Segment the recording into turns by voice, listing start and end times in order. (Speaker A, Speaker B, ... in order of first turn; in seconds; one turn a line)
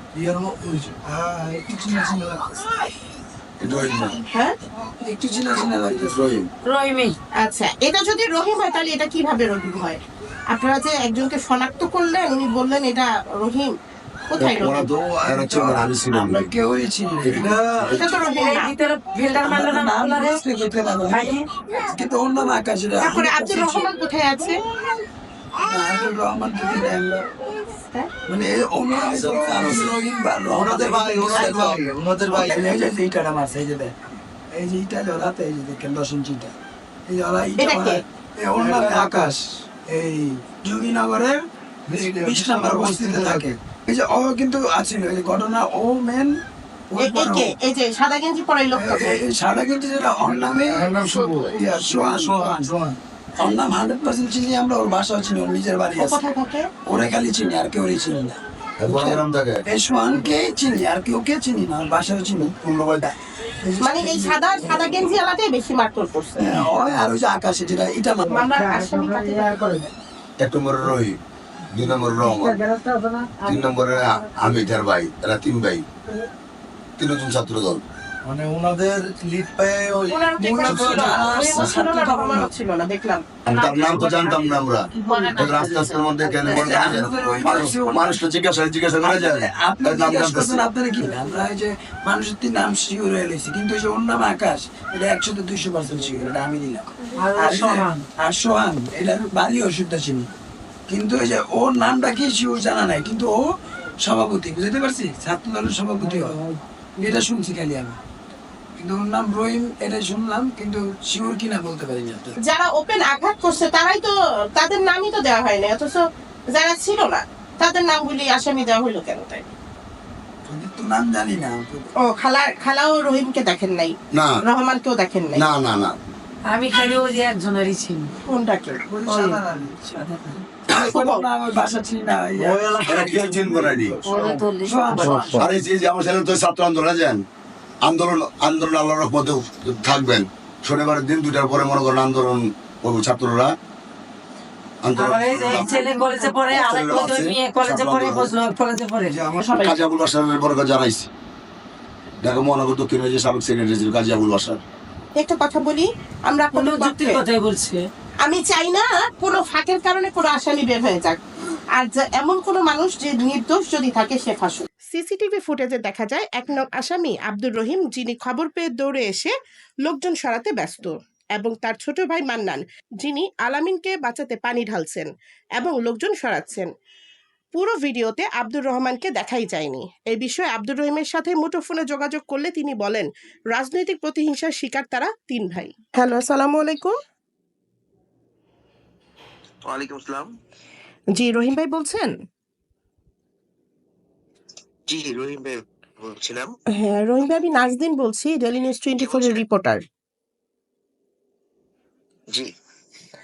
Speaker A: 0.2-1.9
Speaker B: 1.8-2.2
Speaker C: 3.6-4.2
Speaker B: 3.7-4.0
Speaker B: 5.0-6.2
Speaker C: 6.0-6.5
Speaker D: 6.7-7.1
Speaker E: 7.4-10.0
Speaker E: 10.5-13.7
Speaker E: 14.3-14.8
Speaker C: 14.4-16.4
Speaker B: 15.5-17.6
Speaker C: 17.2-18.1
Speaker E: 18.0-18.7
Speaker D: 18.2-20.4
Speaker B: 19.4-23.8
Speaker D: 21.1-21.4
Speaker E: 23.0-24.6
Speaker B: 25.6-27.3
Speaker E: 27.6-28.1
Speaker B: 28.3-34.0
Speaker A: 29.4-29.8
Speaker A: 30.6-32.6
Speaker B: 34.5-36.5
Speaker B: 37.1-46.3
Speaker E: 37.6-38.0
Speaker A: 38.5-39.3
Speaker A: 41.9-43.4
Speaker B: 46.9-47.5
Speaker E: 47.0-49.2
Speaker B: 48.7-52.8
Speaker A: 50.7-52.9
Speaker B: 53.4-56.2
Speaker E: 56.0-56.7
Speaker B: 56.9-62.5
Speaker C: 58.8-59.6
Speaker C: 62.6-63.1
Speaker B: 63.6-65.1
Speaker E: 63.8-66.6
Speaker B: 66.4-68.5
Speaker E: 68.3-69.8
Speaker D: 68.4-69.9
Speaker C: 70.4-71.2
Speaker C: 71.7-72.6
Speaker D: 72.0-74.8
Speaker C: 73.5-75.8
Speaker C: 77.0-77.8
Speaker A: 78.3-80.0
Speaker E: 80.1-83.2
Speaker B: 80.4-82.5
Speaker D: 83.5-86.9
Speaker C: 83.5-90.6
Speaker B: 85.0-85.3
Speaker B: 86.4-88.2
Speaker B: 89.0-100.3
Speaker D: 97.2-98.0
Speaker B: 100.9-103.3
Speaker B: 104.0-106.4
Speaker D: 106.0-107.1
Speaker B: 107.0-108.0
Speaker B: 108.8-112.3
Speaker E: 112.4-116.0
Speaker E: 116.5-119.5
Speaker B: 120.5-121.9
Speaker E: 122.0-125.4
Speaker C: 125.3-126.0
Speaker D: 126.5-128.1
Speaker E: 128.3-128.8
Speaker B: 128.9-135.5
Speaker D: 129.1-129.4
Speaker E: 130.7-131.2
Speaker A: 132.4-132.8
Speaker C: 132.8-134.0
Speaker D: 134.1-135.4
Speaker C: 135.2-137.2
Speaker C: 137.8-143.5
Speaker C: 144.8-145.8
Speaker D: 145.0-149.2
Speaker E: 145.6-146.1
Speaker C: 146.4-148.3
Speaker E: 149.4-149.7
Speaker C: 149.5-151.1
Speaker C: 152.2-154.6
Speaker E: 155.2-157.2
Speaker D: 156.5-157.8
Speaker E: 158.2-161.2
Speaker E: 161.8-169.3
Speaker E: 169.8-176.7
Speaker E: 177.5-187.0
Speaker F: 189.6-190.3
Speaker E: 191.2-192.1
Speaker F: 194.9-196.5
Speaker E: 196.7-199.8
Speaker F: 199.0-199.4